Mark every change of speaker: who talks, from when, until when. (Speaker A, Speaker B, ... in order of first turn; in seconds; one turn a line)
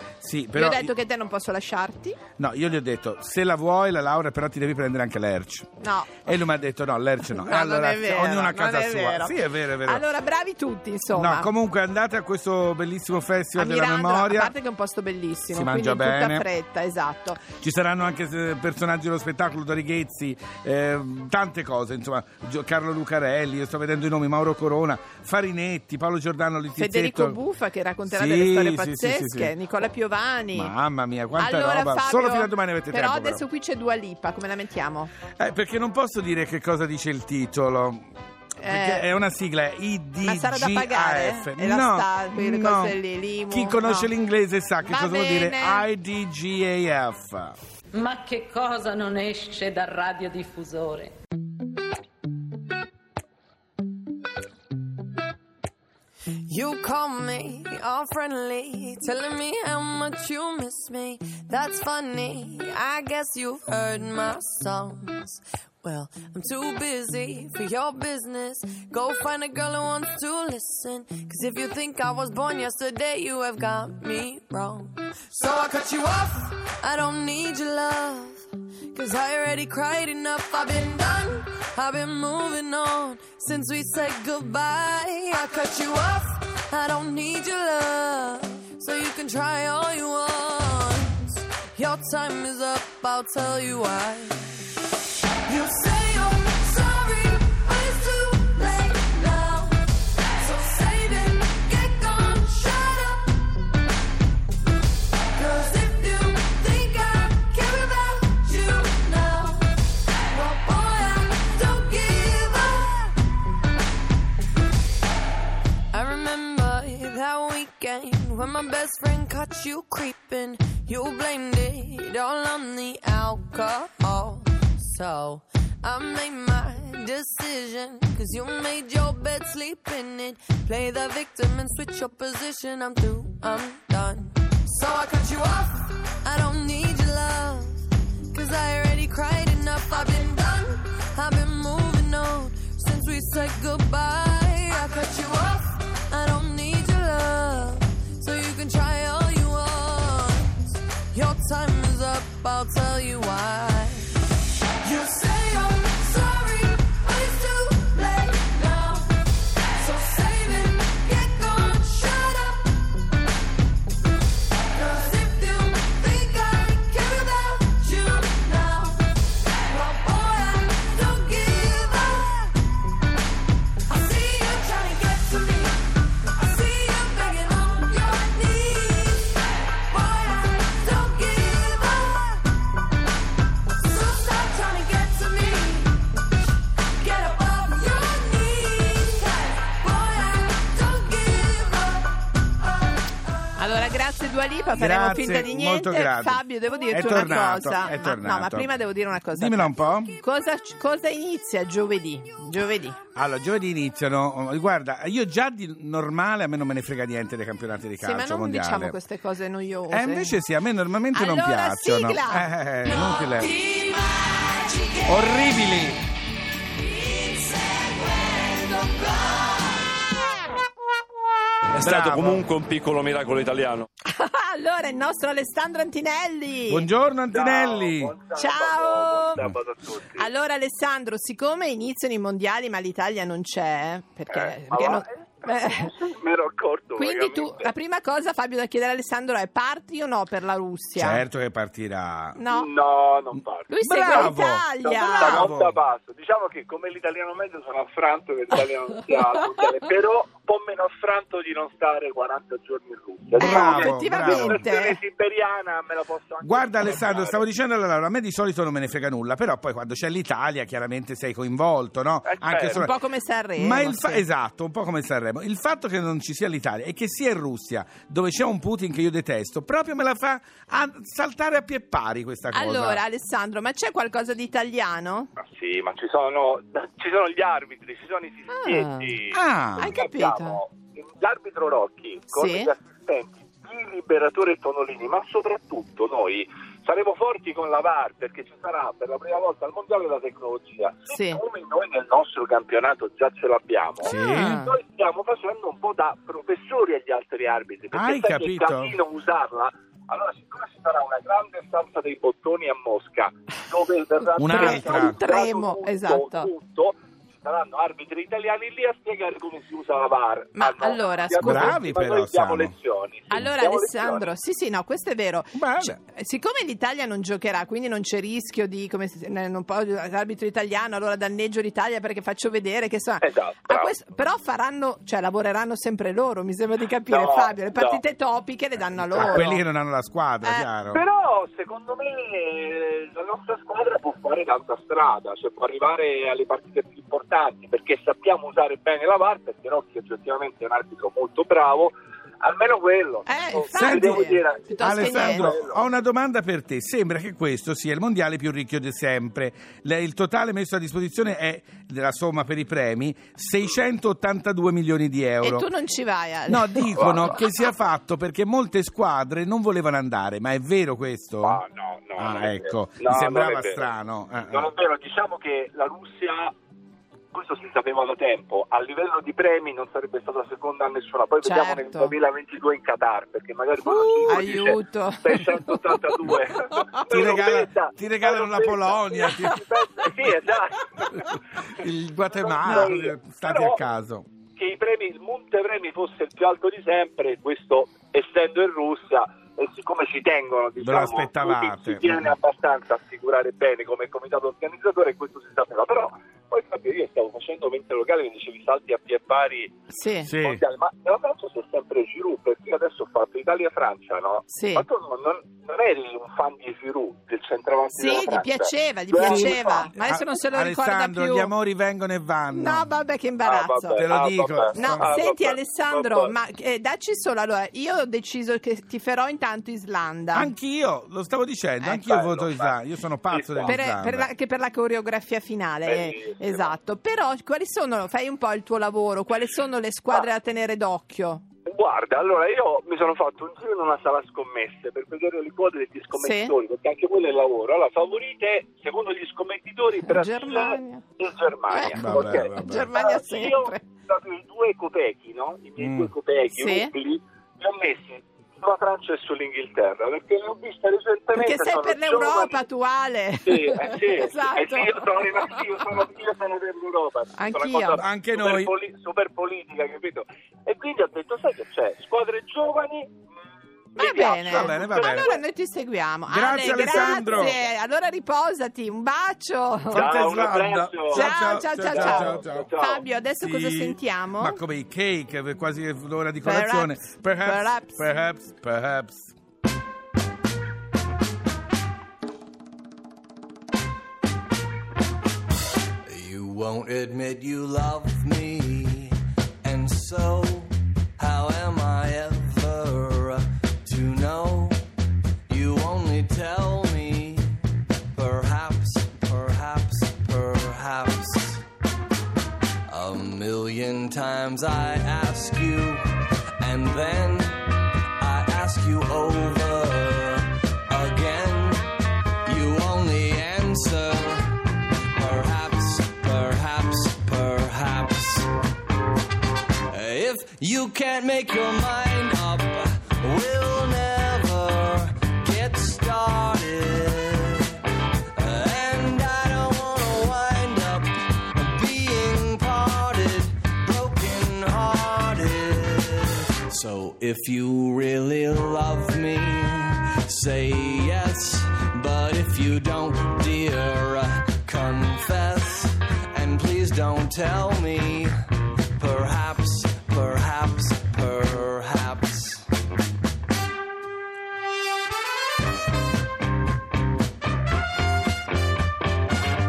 Speaker A: 0.2-0.9
Speaker B: 0.5-2.2
Speaker A: 2.4-5.7
Speaker B: 5.8-6.3
Speaker A: 6.2-10.0
Speaker B: 7.3-11.5
Speaker A: 11.1-14.5
Speaker B: 13.5-17.4
Speaker A: 15.5-16.4
Speaker A: 17.6-27.4
Speaker B: 26.8-30.7
Speaker A: 28.1-29.5
Speaker A: 30.5-33.4
Speaker B: 31.4-35.1
Speaker A: 35.4-38.1
Speaker B: 38.6-39.1
Speaker A: 38.6-43.0
Speaker B: 40.2-44.1
Speaker A: 43.5-47.6
Speaker B: 44.8-45.9
Speaker C: 48.0-51.1
Speaker D: 56.5-94.9
Speaker D: 95.5-103.4
Speaker D: 105.3-113.2
Speaker D: 115.9-154.2
Speaker D: 154.8-162.9
Speaker D: 164.7-172.6
Speaker D: 173.9-182.5
Speaker D: 183.8-186.1
Speaker D: 187.0-192.2
Speaker B: 193.6-203.0
Speaker A: 194.8-200.2
Speaker A: 203.2-208.9
Speaker B: 208.0-210.3
Speaker A: 209.9-213.5
Speaker B: 211.1-212.5
Speaker D: 212.9-215.2
Speaker A: 215.1-216.0
Speaker D: 217.0-219.6
Speaker E: 221.7-223.9
Speaker A: 221.8-222.5
Speaker B: 224.1-226.9
Speaker A: 226.7-228.1
Speaker F: 227.3-230.3
Speaker B: 228.3-229.5
Speaker B: 230.2-235.9
Speaker F: 234.3-237.7
Speaker B: 237.0-241.2
Speaker A: 240.9-242.4
Speaker B: 242.3-242.7
Speaker F: 242.5-257.4
Speaker B: 243.7-245.5
Speaker A: 243.8-245.8
Speaker A: 253.4-254.6
Speaker B: 253.4-255.0
Speaker A: 256.4-262.9
Speaker F: 262.2-262.8
Speaker B: 262.7-264.2
Speaker A: 263.6-273.0
Speaker B: 272.5-275.3
Speaker F: 275.4-314.3
Speaker B: 278.5-279.1
Speaker A: 279.3-280.0
Speaker B: 279.8-280.6
Speaker B: 282.3-282.7
Speaker B: 291.1-291.4
Speaker A: 294.0-294.6
Speaker B: 294.0-294.7
Speaker A: 297.9-298.9
Speaker A: 304.4-305.2
Speaker B: 304.5-306.5
Speaker B: 310.6-311.8
Speaker A: 311.4-312.7
Speaker B: 313.3-329.6
Speaker A: 315.5-316.0
Speaker F: 323.2-323.9
Speaker F: 327.1-328.0
Speaker F: 329.1-329.5
Speaker A: 329.1-331.0
Speaker B: 330.4-330.7
Speaker F: 330.9-345.8
Speaker B: 343.2-345.5
Speaker A: 343.7-344.3
Speaker A: 344.8-355.7
Speaker B: 355.4-356.9
Speaker A: 356.5-361.6
Speaker F: 357.0-357.3
Speaker F: 361.4-363.9
Speaker A: 362.2-364.7
Speaker F: 364.5-366.5
Speaker F: 367.3-383.8
Speaker B: 371.4-372.1
Speaker B: 373.9-375.8
Speaker A: 374.3-374.6
Speaker A: 377.1-380.4
Speaker A: 381.1-384.3
Speaker B: 382.6-382.9
Speaker F: 384.6-399.8
Speaker A: 390.8-392.2
Speaker B: 399.9-400.3
Speaker A: 400.2-400.6
Speaker F: 400.4-409.9
Speaker B: 404.5-404.8
Speaker B: 407.9-411.5
Speaker A: 409.2-412.9
Speaker B: 412.5-414.0
Speaker F: 413.4-416.3
Speaker A: 413.9-415.1
Speaker B: 414.7-420.5
Speaker A: 420.3-424.3
Speaker F: 422.0-422.7
Speaker F: 423.3-423.8
Speaker B: 423.6-431.4
Speaker F: 425.8-426.7
Speaker F: 431.6-452.6
Speaker B: 436.1-436.5
Speaker B: 440.1-441.0
Speaker B: 441.7-443.8
Speaker A: 441.9-442.9
Speaker A: 445.8-446.1
Speaker B: 446.5-446.9
Speaker B: 451.3-455.6
Speaker F: 453.4-463.2
Speaker B: 457.4-458.0
Speaker A: 458.0-458.7
Speaker F: 463.9-465.4
Speaker B: 463.9-470.1
Speaker A: 464.4-465.3
Speaker A: 466.3-467.6
Speaker F: 466.7-467.6
Speaker A: 469.9-472.7
Speaker F: 469.9-473.0
Speaker B: 471.1-474.6
Speaker A: 473.4-479.3
Speaker B: 476.4-478.0
Speaker G: 486.1-494.8
Speaker G: 495.5-501.6
Speaker G: 502.9-506.0
Speaker G: 506.6-507.6
Speaker G: 508.2-511.9
Speaker G: 512.4-514.6
Speaker G: 515.1-518.5
Speaker G: 519.9-548.3
Speaker G: 549.0-552.7